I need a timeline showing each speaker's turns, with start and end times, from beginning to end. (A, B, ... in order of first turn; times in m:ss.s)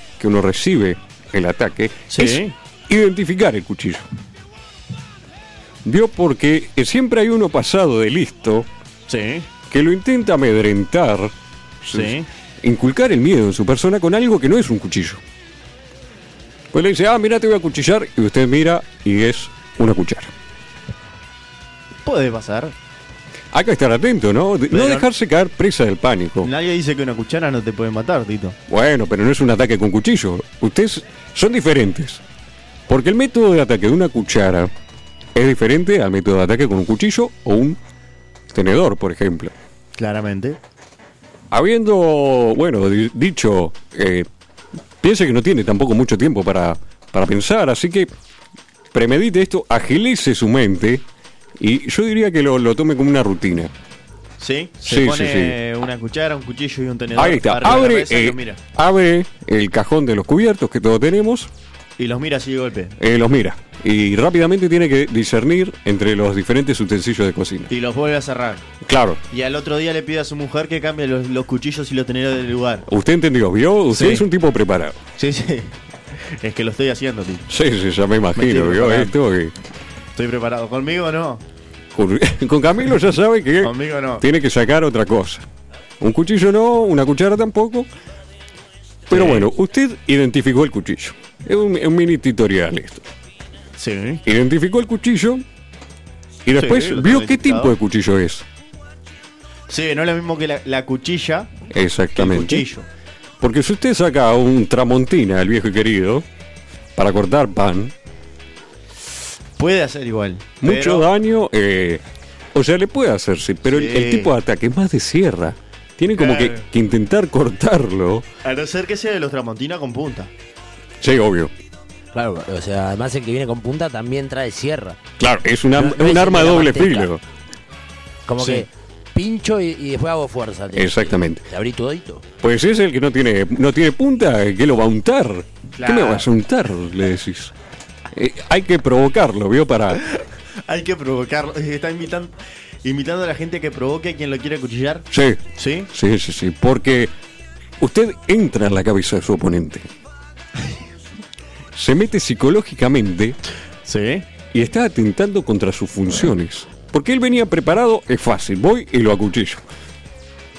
0:00.2-0:04.1 A
0:02.1-0:02.5 B
0:05.8-0:08.7 A
0:09.1-0:09.5 B
0:09.7-0:15.2 A
0:11.9-0:12.3 B
0:16.7-0:20.3 A
0:22.0-0:22.7 B
0:23.5-0:26.5 A
0:24.7-0:25.1 B
0:26.4-0:28.6 B
0:28.7-0:32.2 A
0:32.9-0:34.7 A
0:35.3-0:37.8 A
0:38.5-0:39.5 A
0:40.0-0:40.6 B
0:41.5-0:44.3 A
0:45.0-0:48.1 A
0:48.9-0:51.0 A
0:51.6-0:53.7 A
0:54.4-0:58.6 B
0:54.8-0:55.6 A
0:57.1-1:01.5 A
1:02.0-1:03.0 B
1:03.0-1:07.7 A
1:07.7-1:08.6 B
1:08.8-1:09.2 A
1:09.3-1:12.8 B
1:12.9-1:15.0 A
1:13.9-1:14.3 B
1:15.2-1:17.5 B
1:17.5-1:19.5 A
1:18.3-1:19.1 B
1:20.2-1:21.4 B
1:21.9-1:25.4 A
1:23.6-1:24.2 B
1:26.0-1:27.9 A
1:29.1-1:33.0 A
1:29.1-1:29.4 B
1:33.8-1:34.2 B
1:34.2-1:35.4 A
1:36.4-1:38.4 A
1:36.5-1:37.7 B
1:39.7-1:41.5 B
1:41.7-1:42.6 A
1:42.2-1:42.9 B
1:43.4-1:46.2 A
1:47.0-1:47.9 A
1:49.6-1:51.1 B
1:50.6-1:58.3 A
1:53.6-1:54.3 B
1:56.1-1:56.7 B
1:58.4-2:00.3 B
2:01.0-2:01.5 A
2:02.1-2:05.0 C
2:05.2-2:07.2 A
2:05.7-2:07.1 C
2:08.3-2:12.2 C
2:08.4-2:08.6 B
2:10.7-2:11.4 A
2:12.4-2:17.5 A
2:15.8-2:16.3 B
2:18.1-2:20.0 A
2:20.0-2:25.9 B
2:25.1-2:27.1 A
2:27.8-2:29.9 A
2:31.7-2:33.4 A
2:33.8-2:34.2 B
2:34.5-2:39.6 A